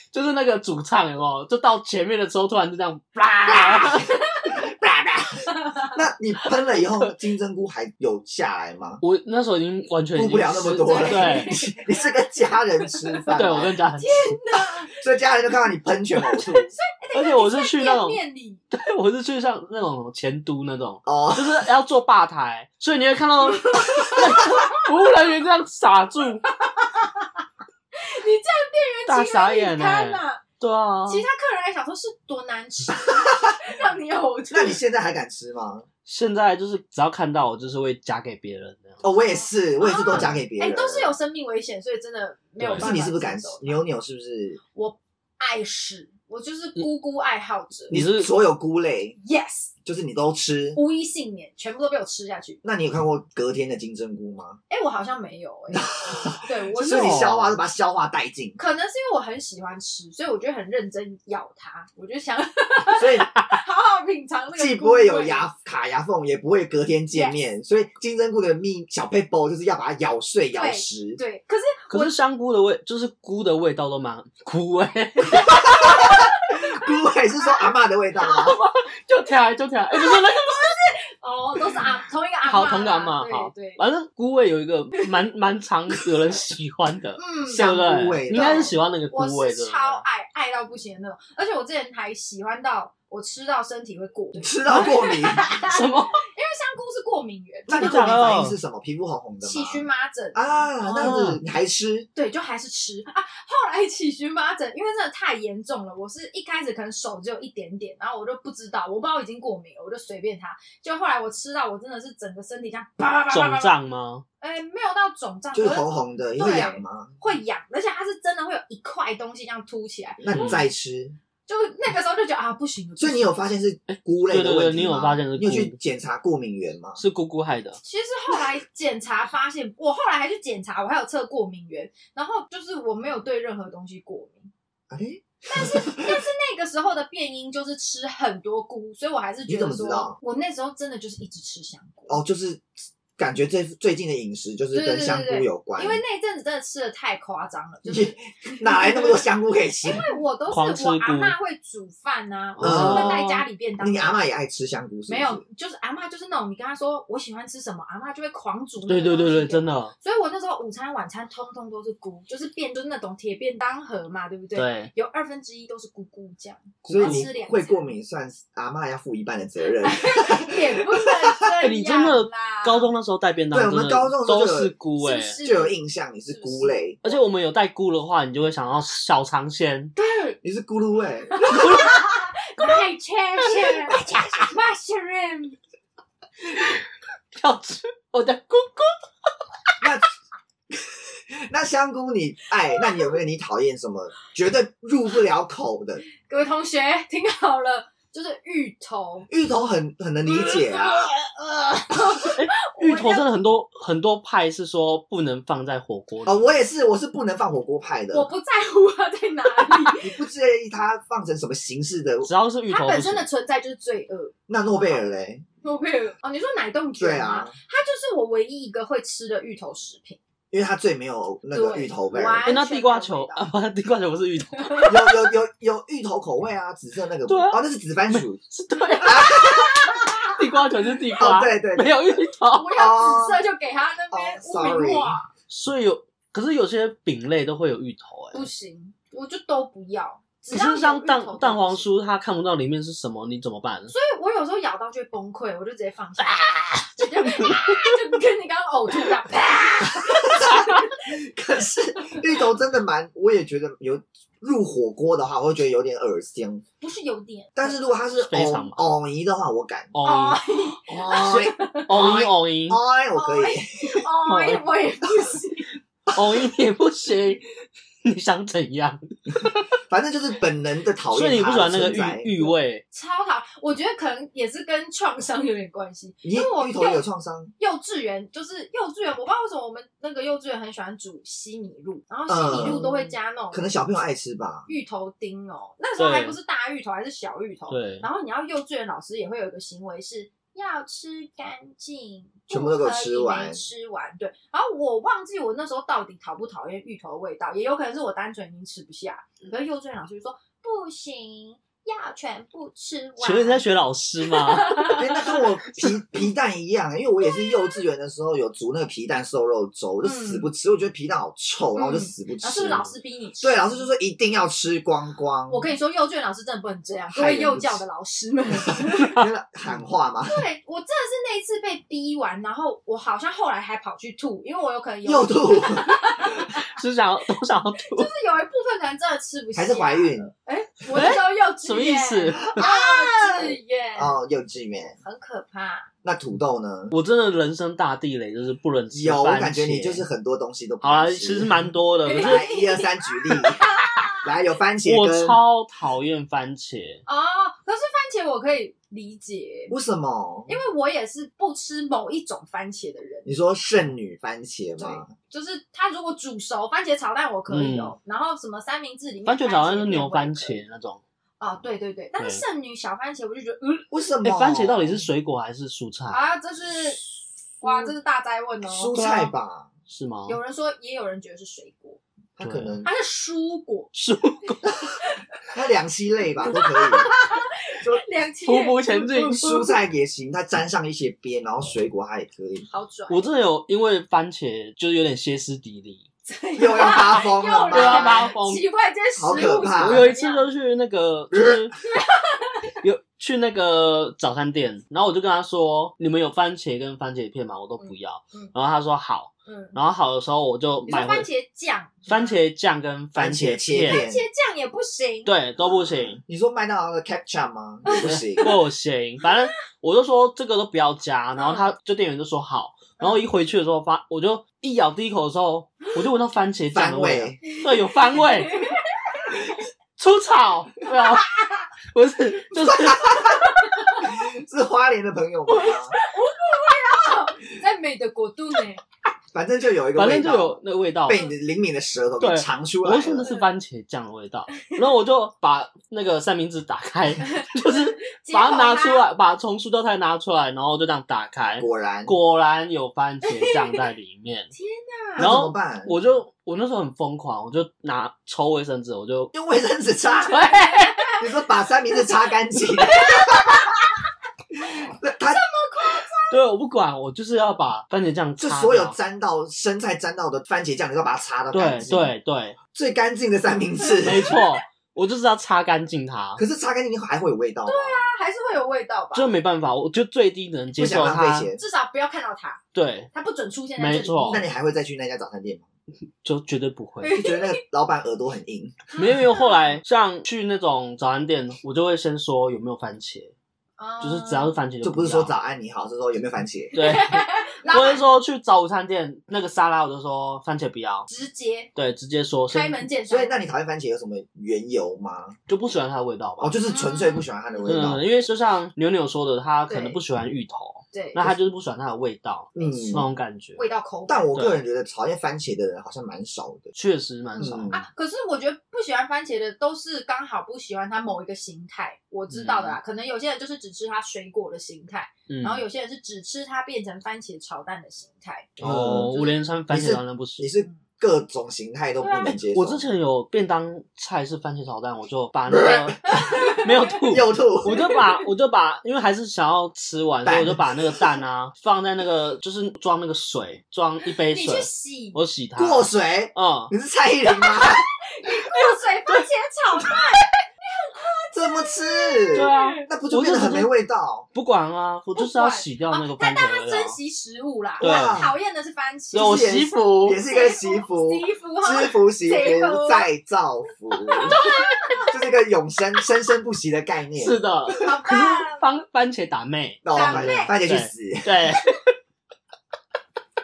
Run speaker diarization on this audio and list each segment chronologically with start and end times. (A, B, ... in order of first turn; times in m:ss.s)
0:00.1-0:04.1 A
0:03.4-0:09.0 B
0:09.0-0:11.6 A
0:10.1-0:16.7 B
0:10.8-0:11.8 C
0:12.8-0:13.2 C
0:13.3-0:14.3 A
0:14.0-0:15.0 C
0:16.3-0:18.6 C
0:16.3-0:16.6 A
0:17.1-0:26.4 A
0:21.0-0:21.7 B
0:23.4-0:24.8 C
0:26.6-0:27.2 C
0:28.0-0:30.4 C
0:29.1-0:31.2 A
0:31.0-0:34.8 C
0:32.9-0:33.6 B
0:34.5-0:35.9 B
0:36.0-0:39.0 A
0:39.0-0:41.2 B
0:39.1-0:43.8 C
0:40.1-0:40.4 A
0:42.6-0:43.0 A
0:42.7-0:44.6 B
0:44.7-0:48.0 C
0:47.9-0:48.3 A
0:47.9-0:49.2 B
0:49.2-0:49.7 C
0:49.8-0:50.8 B
0:50.7-0:52.6 C
0:52.6-0:54.6 B
0:54.7-0:57.3 C
0:55.7-0:58.6 B
0:56.9-0:57.6 A
0:58.6-1:05.5 C
1:02.9-1:03.3 B
1:04.5-1:11.2 B
1:07.1-1:07.4 C
1:10.5-1:12.1 C
1:11.9-1:15.9 A
1:15.3-1:16.7 C
1:15.4-1:18.6 B
1:18.2-1:20.7 A
1:19.9-1:23.8 C
1:22.4-1:30.0 A
1:27.2-1:27.7 C
1:27.4-1:28.8 B
1:29.1-1:38.2 C
1:34.4-1:35.4 B
1:34.7-1:36.2 A
1:37.7-1:42.1 B
1:37.7-1:38.6 A
1:39.4-1:40.7 C
1:40.8-1:41.4 A
1:42.1-1:53.8 C
1:53.3-1:54.2 A
1:54.4-2:00.5 C
1:55.5-1:57.1 B
2:00.2-2:01.2 B
2:00.3-2:00.6 A
2:01.5-2:03.4 C
2:03.0-2:07.0 B
2:03.9-2:05.8 A
2:07.0-2:07.8 A
2:07.8-2:14.5 C
2:14.9-2:16.2 B
2:15.5-2:22.2 C
2:19.5-2:20.2 B
2:22.1-2:22.6 B
2:23.2-2:26.0 B
2:24.7-2:29.2 C
2:27.8-2:30.1 B
2:29.8-2:34.2 C
2:30.5-2:31.3 A
2:32.6-2:33.4 A
2:32.6-2:33.2 B
2:33.8-2:35.4 B
2:35.1-2:47.9 C
2:38.9-2:39.9 A
2:44.5-2:44.9 A
2:46.8-2:47.3 A
2:46.8-2:51.1 B
2:49.8-2:52.9 C
2:51.6-2:55.4 A
2:53.5-2:54.7 B
2:55.0-2:57.2 C
2:55.4-2:57.0 B
2:57.0-2:59.9 A
3:00.0-3:00.4 C
3:00.4-3:01.9 B
3:01.3-3:05.6 C
3:01.5-3:02.0 A
3:03.7-3:04.3 A
3:03.9-3:04.3 B
3:06.5-3:06.8 A
3:07.3-3:09.0 A
3:09.8-3:10.1 B
3:10.7-3:16.0 B
3:16.2-3:19.3 C
3:19.3-3:21.1 B
3:20.2-3:21.2 C
3:21.5-3:26.6 A
3:21.8-3:23.3 C
3:26.2-3:28.3 B
3:28.1-3:30.1 C
3:29.9-3:32.3 B
3:32.2-3:33.3 A
3:32.7-3:35.0 C
3:34.5-3:35.4 B
3:35.6-3:40.2 C
3:37.0-3:37.6 B
3:40.5-3:42.5 B
3:41.5-3:43.5 C
3:42.4-3:45.0 A
3:44.6-3:44.9 C
3:44.8-3:48.4 B
3:47.3-3:52.8 A
3:49.0-3:50.3 B
3:49.6-3:50.3 C
3:51.2-3:52.0 B
3:52.5-3:55.3 C
3:52.7-3:53.4 B
3:54.1-3:55.2 B
3:55.5-3:58.4 A
3:58.3-4:01.9 C
4:00.5-4:03.9 A
4:03.9-4:10.9 C
4:06.3-4:08.0 A
4:09.8-4:16.6 B
4:16.8-4:18.0 C
4:17.6-4:19.9 B
4:18.2-4:18.9 A
4:19.9-4:20.4 A
4:20.0-4:22.2 C
4:20.9-4:24.0 B
4:21.9-4:22.8 A
4:23.1-4:25.7 C
4:24.2-4:24.7 A
4:26.1-4:27.4 A
4:28.0-4:29.5 A
4:29.9-4:32.5 B
4:31.1-4:32.8 A
4:32.9-4:37.0 C
4:36.2-4:37.5 B
4:37.6-4:43.8 C
4:42.3-4:44.7 B
4:44.7-5:03.6 C
4:46.0-4:46.4 A
4:47.7-4:48.0 A
4:52.5-4:53.6 B
5:03.2-5:05.1 A
5:04.3-5:05.4 C
5:04.9-5:15.7 B
5:07.4-5:07.7 C
5:10.0-5:10.5 C
5:11.8-5:13.9 C
5:15.5-5:19.2 C
5:17.1-5:17.8 B
5:18.7-5:20.4 B
5:20.2-5:26.7 C
5:25.0-5:25.9 B
5:26.7-5:28.1 A
5:27.9-5:34.2 C
5:29.5-5:30.3 B
5:30.9-5:32.6 A
5:32.5-5:35.0 B
5:35.0-5:35.9 C
5:36.0-5:36.9 B
5:36.9-5:40.0 A
5:38.9-5:41.6 B
5:40.8-5:42.5 A
5:42.0-5:42.9 C
5:42.2-5:43.6 B
5:43.6-5:44.3 C
5:44.2-5:45.4 B
5:44.8-5:47.0 A
5:47.0-5:49.7 C
5:49.7-5:50.5 B
5:50.5-5:53.3 C
5:53.2-5:55.1 B
5:54.8-6:00.6 C
5:57.5-5:57.9 A
5:59.2-6:01.0 A
6:01.4-6:03.9 C
6:02.2-6:02.4 A
6:03.9-6:05.0 B
6:04.2-6:06.3 A
6:06.1-6:07.0 C
6:07.6-6:08.9 C
6:08.7-6:09.7 B
6:08.9-6:09.3 A
6:09.9-6:10.4 A
6:10.3-6:12.0 C
6:12.4-6:12.9 B
6:12.4-6:12.8 A
6:12.8-6:13.9 C
6:13.9-6:14.8 A
6:14.8-6:15.2 C
6:15.5-6:17.1 B
6:16.5-6:19.7 C
6:18.4-6:19.7 A
6:19.2-6:22.6 B
6:22.7-6:23.3 C
6:23.1-6:26.0 A
6:26.2-6:30.5 C
6:26.6-6:28.3 B
6:27.7-6:28.6 A
6:29.2-6:30.1 B
6:29.3-6:31.7 A
6:31.3-6:31.7 B
6:31.9-6:32.6 C
6:32.8-6:41.3 A
6:37.8-6:38.5 C
6:39.5-6:39.8 C
6:40.8-6:41.1 B
6:40.9-6:42.4 C
6:42.0-6:44.0 A
6:43.1-6:44.2 B
6:43.8-6:45.3 C
6:45.2-6:46.2 A
6:45.9-6:48.6 B
6:47.8-6:48.5 C
6:47.9-6:58.6 A
6:51.4-6:51.7 C
6:56.7-6:57.4 B
6:57.5-6:59.4 C
7:00.0-7:03.3 A
7:02.5-7:06.0 B
7:03.4-7:04.1 C
7:05.5-7:08.8 C
7:09.3-7:13.3 B
7:09.9-7:11.3 A
7:12.2-7:24.5 A
7:17.3-7:19.0 C
7:21.6-7:22.1 B
7:23.2-7:23.8 C
7:24.5-7:25.3 C
7:25.2-7:26.1 B
7:25.2-7:29.3 A
7:29.3-7:30.4 B
7:30.2-7:31.1 A
7:30.2-7:31.2 C
7:31.2-7:33.6 B
7:32.8-7:33.8 C
7:34.5-7:35.4 B
7:35.3-7:36.4 C
7:36.3-7:38.9 A
7:38.4-7:42.1 B
7:41.5-7:42.6 A
7:42.7-7:44.4 B
7:43.8-7:44.6 C
7:44.0-7:46.4 A
7:46.4-7:48.0 B
7:47.6-7:49.3 C
7:49.1-7:51.5 A
7:50.7-7:51.6 B
7:51.5-7:52.6 C
7:52.7-7:53.1 A
7:53.1-7:54.5 C
7:53.8-7:54.4 A
7:54.2-7:55.6 B
7:56.2-7:57.2 A
7:57.0-7:57.6 C
7:57.1-7:58.8 B
7:58.9-7:59.8 C
7:59.0-8:03.3 A
8:03.8-8:04.6 C
8:04.0-8:05.3 A
8:04.8-8:06.8 B
8:06.7-8:08.0 C
8:06.7-8:11.1 A
8:11.1-8:11.7 C
8:11.7-8:12.8 A
8:12.5-8:13.4 C
8:13.1-8:15.3 B
8:15.5-8:16.6 A
8:16.4-8:18.0 B
8:16.6-8:17.2 C
8:17.6-8:23.6 A
8:19.7-8:20.0 C
8:20.9-8:21.3 C
8:22.5-8:23.0 B
8:22.5-8:24.3 C
8:24.1-8:26.7 B
8:24.3-8:24.6 A
8:26.8-8:27.8 A
8:27.4-8:38.6 C
8:27.4-8:27.8 B
8:32.3-8:32.8 A
8:35.3-8:35.6 A
8:38.6-8:39.2 B
8:38.6-8:40.5 A
8:39.1-8:39.4 C
8:39.7-8:42.9 B
8:42.0-8:42.3 C
8:42.2-8:56.7 A
8:45.5-8:46.5 B
8:46.1-8:46.9 C
8:47.1-8:47.8 B
8:47.6-8:48.1 C
8:50.2-8:51.0 B
8:54.3-8:55.2 C
8:55.6-8:57.9 B
8:57.3-9:02.9 C
9:01.3-9:04.2 B
9:02.3-9:03.7 A
9:04.3-9:07.0 A
9:05.2-9:09.5 C
9:07.8-9:08.2 A
9:07.8-9:08.3 B
9:09.1-9:10.2 A
9:09.1-9:18.0 B
9:10.2-9:13.1 C
9:14.0-9:15.2 C
9:17.2-9:21.9 A
9:17.7-9:18.6 C
9:19.8-9:21.5 B
9:19.9-9:20.6 C